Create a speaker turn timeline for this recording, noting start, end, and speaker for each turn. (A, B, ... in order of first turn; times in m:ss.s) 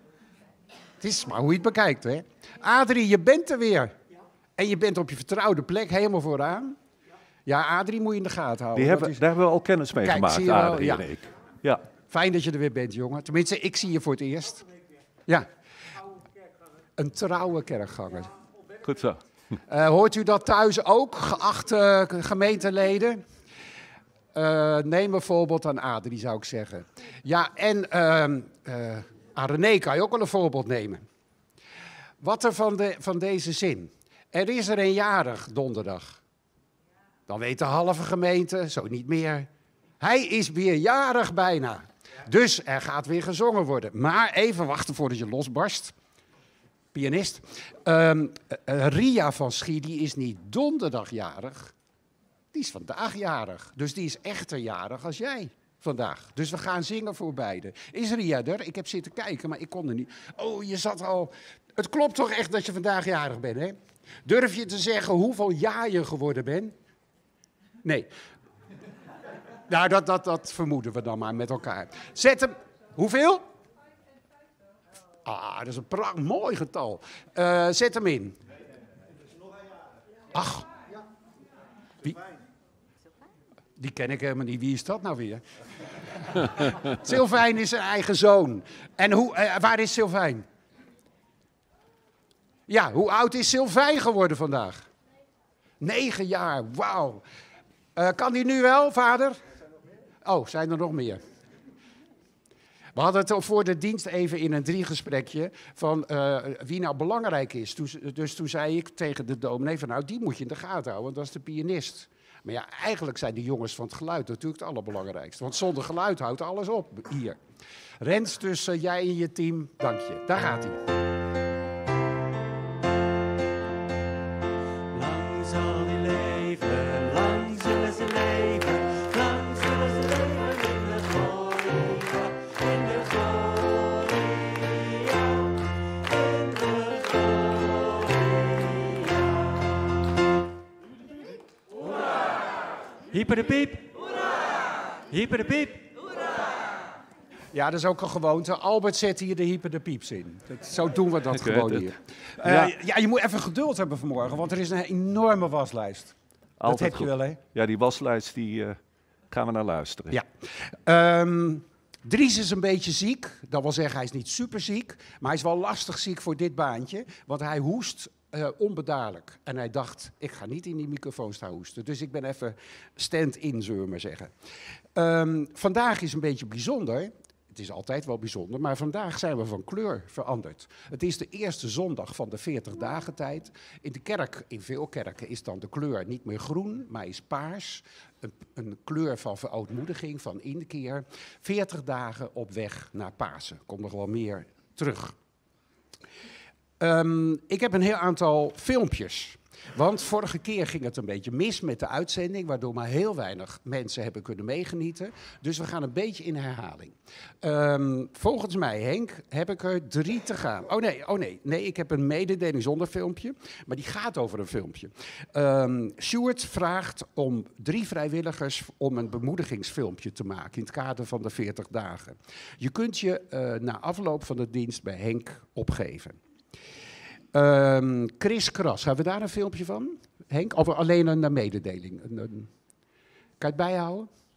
0:01.0-0:03.9 A
0:04.6-0:06.8 A
0:07.5-0:09.2 A
0:08.8-0:11.8 B
0:10.0-0:11.0 A
0:12.1-0:14.7 A
0:17.0-0:18.3 A
0:18.8-0:19.2 B
0:19.7-0:23.2 A
0:24.3-0:31.0 A
0:32.2-0:36.2 A
0:37.3-0:39.5 A
0:40.0-0:46.0 A
0:46.9-0:51.7 A
0:52.5-1:06.7 A
1:07.8-1:08.1 A
1:09.7-1:13.4 A
1:15.2-1:18.4 A
1:20.3-1:20.7 A
1:23.8-1:25.4 A
1:26.2-1:30.5 A
1:32.7-1:34.9 A
1:35.8-1:37.2 A
1:38.0-1:39.4 A
1:40.2-1:41.2 A
1:42.9-1:57.4 A
1:58.0-2:00.8 A
2:04.9-2:15.5 C
2:16.1-2:19.4 C
2:23.1-2:24.0 C
2:25.1-2:26.0 C
2:27.5-2:37.4 A
2:31.3-2:32.7 B
2:36.6-2:38.8 B
2:39.3-2:40.2 B
2:40.1-2:54.3 A
2:54.9-3:15.2 A
3:16.8-3:46.2 A
3:47.3-3:52.5 A
3:53.4-3:54.1 A